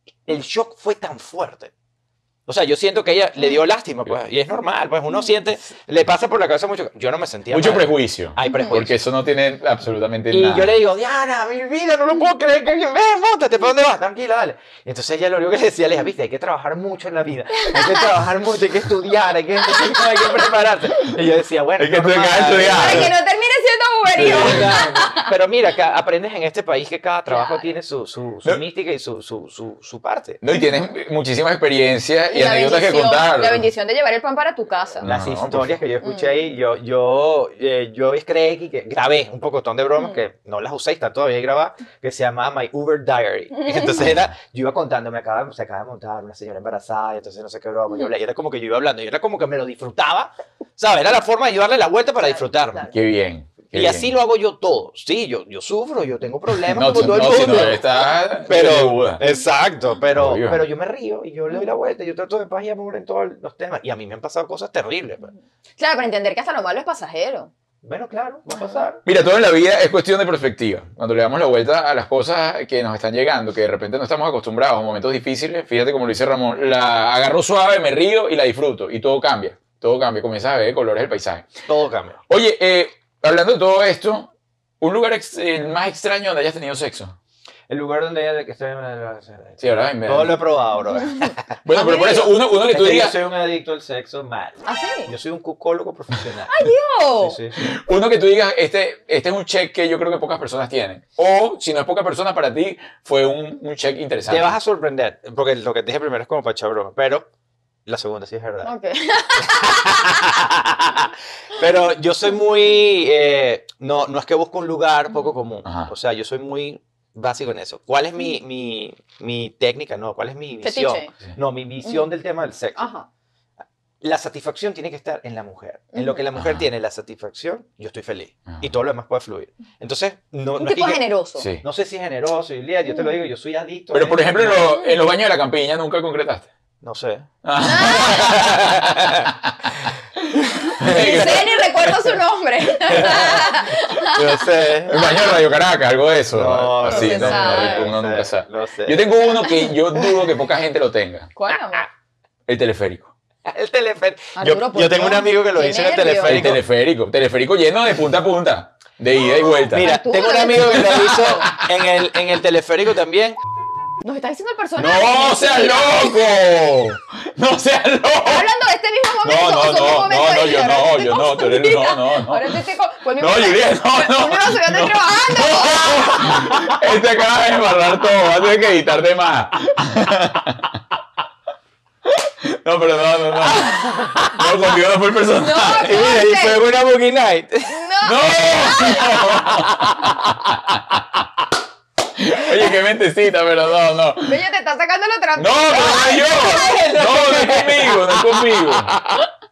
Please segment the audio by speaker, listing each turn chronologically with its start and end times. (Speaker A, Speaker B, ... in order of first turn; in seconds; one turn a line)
Speaker A: 0.3-1.7
Speaker A: 2.5-8.9
Speaker B: 7.5-10.8
Speaker A: 10.3-23.1
Speaker C: 17.7-18.0
Speaker B: 21.8-23.1
Speaker C: 22.7-25.3
Speaker B: 24.1-24.6
Speaker A: 24.2-30.4
Speaker C: 27.3-27.7
Speaker B: 30.4-33.7
Speaker C: 32.3-35.1
Speaker A: 35.0-52.9
Speaker B: 35.0-35.7
Speaker C: 36.0-36.5
Speaker C: 43.5-44.0
Speaker C: 52.2-52.9
Speaker B: 52.9-54.1
Speaker A: 53.7-57.9
Speaker B: 56.6-59.2
Speaker A: 58.5-65.3
Speaker B: 60.1-60.6
Speaker C: 65.8-67.5
Speaker A: 67.8-69.0
Speaker B: 69.0-81.5
Speaker A: 81.7-82.2
Speaker B: 82.3-84.3
Speaker B: 84.8-87.2
Speaker A: 87.7-91.4
Speaker B: 89.6-90.4
Speaker B: 91.6-93.2
Speaker C: 91.7-92.3
Speaker A: 92.5-96.7
Speaker C: 94.7-95.1
Speaker C: 96.5-97.4
Speaker A: 97.2-97.7
Speaker B: 97.6-104.5
Speaker A: 104.3-107.3
Speaker A: 107.9-108.7
Speaker C: 108.6-110.0
Speaker A: 109.4-122.9
Speaker C: 120.6-121.1
Speaker C: 122.8-123.1
Speaker A: 124.0-131.0
Speaker C: 125.9-126.2
Speaker B: 126.4-126.7
Speaker C: 130.6-131.5
Speaker B: 131.4-131.6
Speaker A: 131.6-134.7
Speaker B: 133.9-136.5
Speaker C: 134.6-134.9
Speaker A: 136.8-137.3
Speaker B: 137.4-139.5
Speaker C: 137.6-138.6
Speaker A: 138.0-139.3
Speaker A: 140.6-141.5
Speaker B: 140.7-141.8
Speaker C: 140.8-144.4
Speaker A: 142.9-145.1
Speaker B: 144.9-151.3
Speaker A: 146.3-149.0
Speaker C: 146.9-147.9
Speaker C: 149.4-149.7
Speaker C: 151.4-151.9
Speaker B: 152.5-153.1
Speaker A: 153.4-156.6
Speaker C: 154.3-156.5
Speaker B: 156.2-159.9
Speaker C: 159.6-161.5
Speaker A: 159.7-163.4
Speaker B: 160.7-161.6
Speaker C: 164.0-166.3
Speaker B: 164.8-168.5
Speaker C: 168.2-176.5
Speaker B: 169.2-172.6
Speaker B: 173.2-180.8
Speaker B: 182.1-185.9
Speaker A: 183.5-184.5
Speaker C: 185.4-186.6
Speaker A: 185.7-187.8
Speaker C: 187.7-189.4
Speaker B: 188.0-191.0
Speaker A: 189.0-190.3
Speaker B: 192.2-194.3
Speaker C: 194.2-196.9
Speaker B: 195.4-198.9
Speaker A: 196.2-199.2